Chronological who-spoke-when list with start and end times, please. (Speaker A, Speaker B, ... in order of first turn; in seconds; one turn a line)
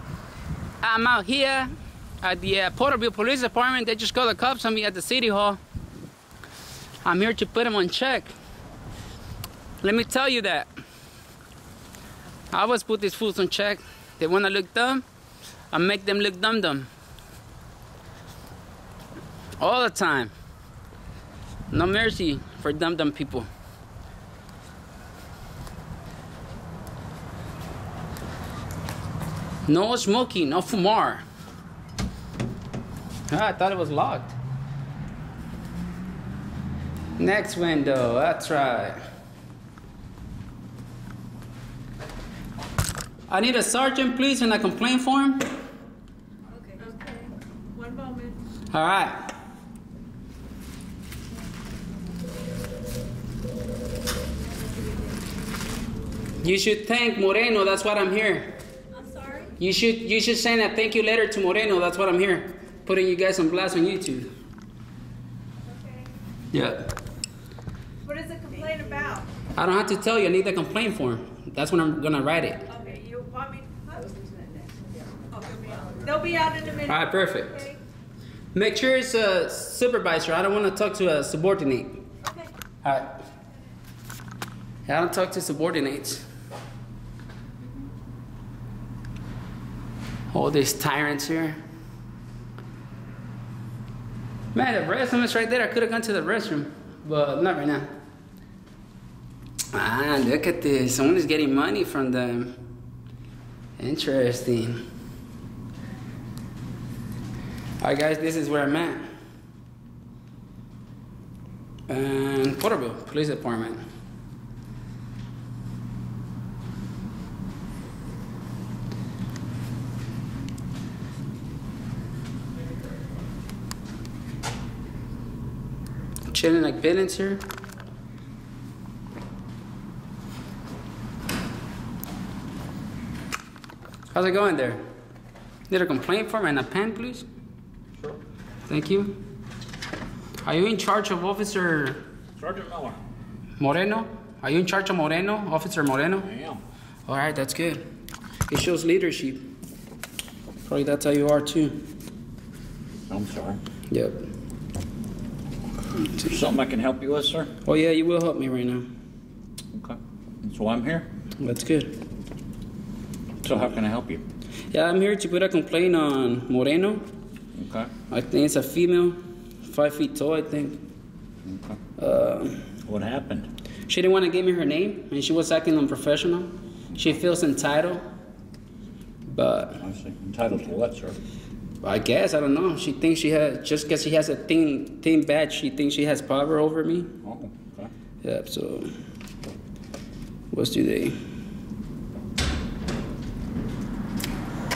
Speaker A: 0.8-1.7
Speaker A: 2.2-5.6
Speaker A: 7.0-8.3
Speaker A: 9.8-10.7
Speaker A: 12.5-15.1
Speaker A: 15.7-16.9
Speaker A: 19.6-20.3
Speaker A: 21.7-23.5
Speaker A: 29.7-31.2
Speaker A: 33.3-34.4
Speaker A: 37.2-39.0
Speaker A: 43.3-45.5
Speaker B: 46.7-48.4
Speaker A: 48.7-49.3
Speaker A: 56.4-58.6
Speaker B: 59.0-59.5
Speaker A: 59.6-64.3
Speaker B: 65.7-66.1
Speaker A: 66.5-66.9
Speaker B: 68.0-69.3
Speaker A: 69.5-72.7
Speaker B: 72.7-74.8
Speaker B: 75.4-76.9
Speaker A: 76.8-77.7
Speaker A: 78.5-82.0
Speaker A: 82.8-83.2
Speaker A: 84.9-86.3
Speaker A: 90.3-91.6
Speaker A: 94.5-97.9
Speaker A: 99.7-102.6
Speaker A: 103.8-104.8
Speaker A: 107.8-109.1
Speaker A: 111.9-113.8
Speaker A: 126.3-127.5
Speaker A: 134.1-134.8
Speaker A: 135.7-137.3
Speaker A: 138.7-139.2
Speaker A: 140.4-142.1
Speaker C: 142.4-143.0
Speaker A: 143.6-146.3
Speaker C: 146.2-146.6
Speaker A: 147.1-147.8
Speaker A: 148.5-149.5
Speaker A: 150.7-151.8
Speaker C: 153.1-153.6
Speaker A: 153.9-154.3
Speaker C: 156.1-157.5
Speaker A: 157.7-158.9
Speaker C: 159.7-161.1
Speaker A: 161.4-162.0
Speaker C: 163.4-164.2
Speaker A: 164.7-167.1
Speaker C: 167.6-167.9
Speaker A: 168.1-170.8
Speaker C: 171.4-171.8
Speaker A: 172.0-172.7
Speaker C: 172.9-173.5
Speaker A: 173.9-178.0
Speaker A: 179.3-179.8
Speaker C: 179.8-181.2
Speaker A: 181.8-187.1
Speaker C: 187.2-187.9
Speaker A: 188.2-188.9
Speaker A: 190.5-191.2